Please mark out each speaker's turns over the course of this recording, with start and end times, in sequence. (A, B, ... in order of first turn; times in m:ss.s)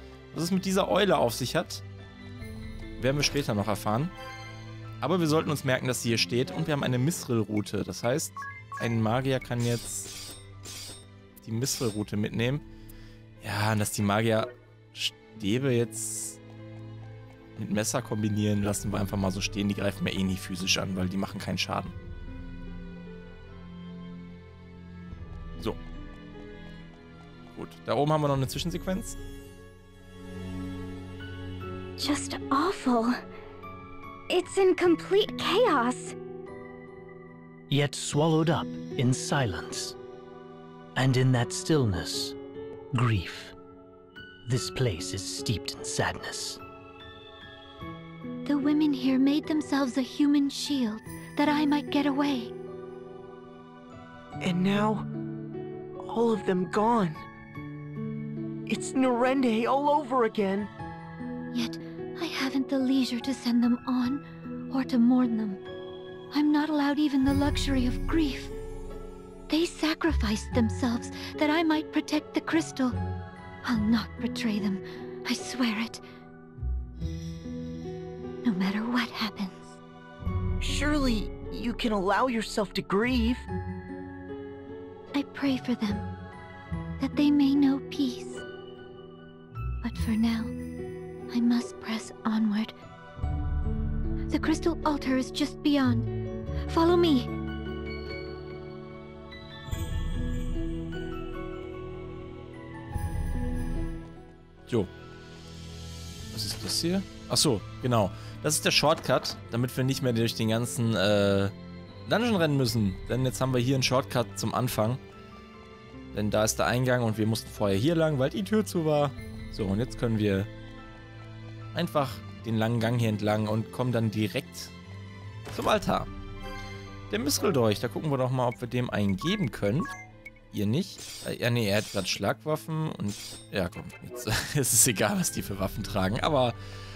0:00.3-0:01.8 A
0:03.0-0:04.1 A
0:05.0-0:10.1 A
0:11.4-0:12.6 A
0:13.4-0:16.4 A
0:17.6-0:22.0 A
0:27.6-0:29.2 A
0:32.0-0:33.2 B
0:34.3-0:36.2 B
0:37.7-0:40.0 C
0:41.0-0:42.4 C
0:42.9-0:43.5 C
0:44.4-0:46.6 C
0:48.4-0:52.5 D
0:54.4-0:55.1 E
0:56.0-0:57.2 E
0:58.7-1:00.7 E
1:01.5-1:05.6 D
1:06.3-1:08.5 D
1:09.5-1:13.0 D
1:13.6-1:16.0 D
1:18.4-1:19.8 D
1:20.6-1:23.5 E
1:25.1-1:26.1 D
1:27.0-1:28.4 D
1:29.8-1:30.5 D
1:31.3-1:32.7 D
1:34.3-1:36.1 D
1:36.7-1:37.3 D
1:46.3-1:51.5 A
1:52.1-1:55.0 A
1:56.1-2:00.5 A
2:01.7-2:04.7 A
2:05.5-2:06.1 A
2:07.1-2:09.9 A
2:10.5-2:16.6 A